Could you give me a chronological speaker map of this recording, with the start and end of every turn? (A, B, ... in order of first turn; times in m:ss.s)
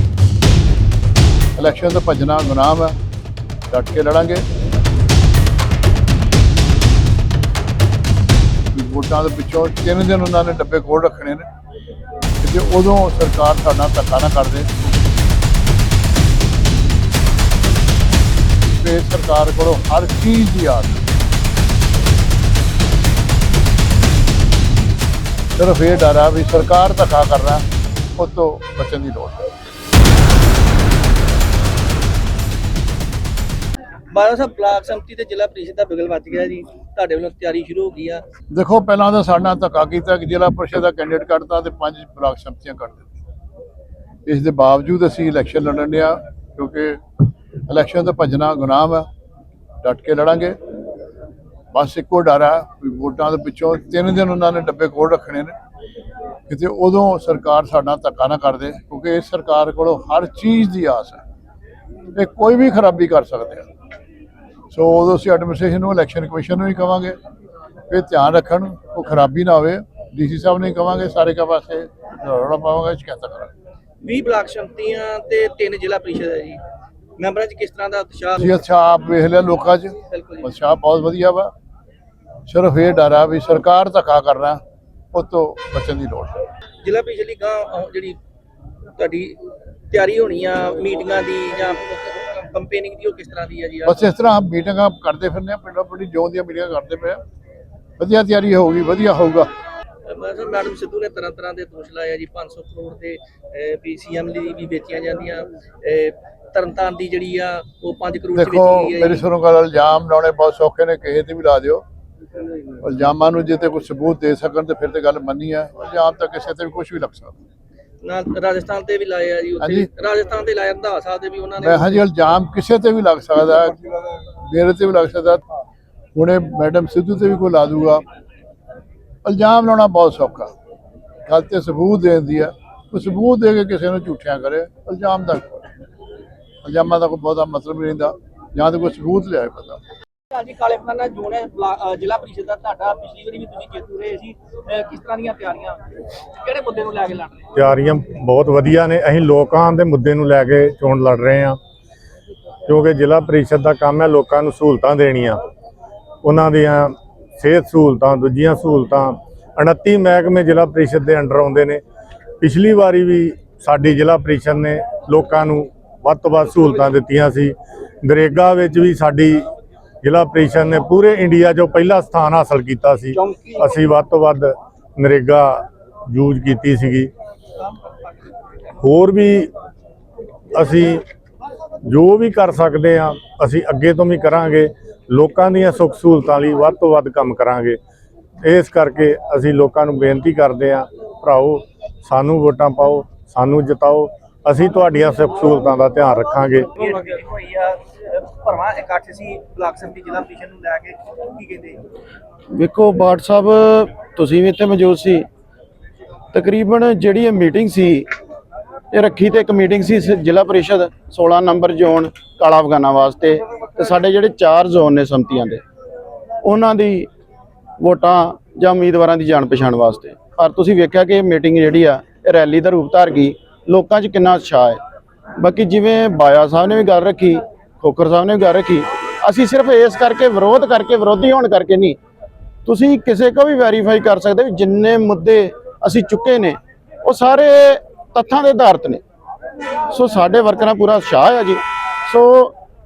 0:01.6-0:02.9 A
0:03.7-0:04.4 A
0:08.7-0:11.5 A
0:12.4-0:14.7 A
0:18.7-0:21.0 A
0:25.6-0:27.6 A
0:28.2-0:29.4 A
0:34.1-0:38.2 B
0:38.5-0:43.1 A
0:44.2-0:47.0 A
0:47.7-0:49.0 A
0:49.8-0:50.6 A
0:51.7-0:55.5 A
0:56.5-1:01.2 A
1:02.1-1:03.7 A
1:04.7-1:07.2 A
1:07.9-1:13.5 A
1:14.0-1:16.6 B
1:17.2-1:18.6 B
1:18.4-1:21.5 A
1:20.0-1:20.5 B
1:22.5-1:24.6 A
1:25.1-1:26.4 A
1:26.8-1:28.2 B
1:29.0-1:29.4 B
1:29.9-1:34.0 B
1:33.8-1:37.2 A
1:38.0-1:39.5 A
1:40.0-1:49.2 B
1:48.3-1:51.8 A
1:52.8-1:57.4 A
1:58.0-2:02.0 B
1:59.6-1:59.9 A
2:01.6-2:03.8 A
2:04.4-2:05.4 A
2:06.1-2:08.0 A
2:09.2-2:10.5 A
2:11.3-2:15.7 A
2:16.6-2:19.8 A
2:20.3-2:27.5 B
2:27.5-2:31.6 C
2:32.7-2:35.4 C
2:36.2-2:41.8 C
2:42.4-2:49.4 C
2:50.0-2:57.1 C
2:58.8-2:59.5 C
3:00.5-3:01.0 C
3:01.9-3:07.8 C
3:08.4-3:16.7 C
3:16.8-3:21.8 B
3:22.5-3:25.3 D
3:26.3-3:28.1 D
3:28.9-3:35.6 D
3:36.4-3:37.1 D
3:37.8-3:44.8 D
3:45.4-3:52.0 D
3:52.6-3:59.0 D
3:59.9-4:02.6 D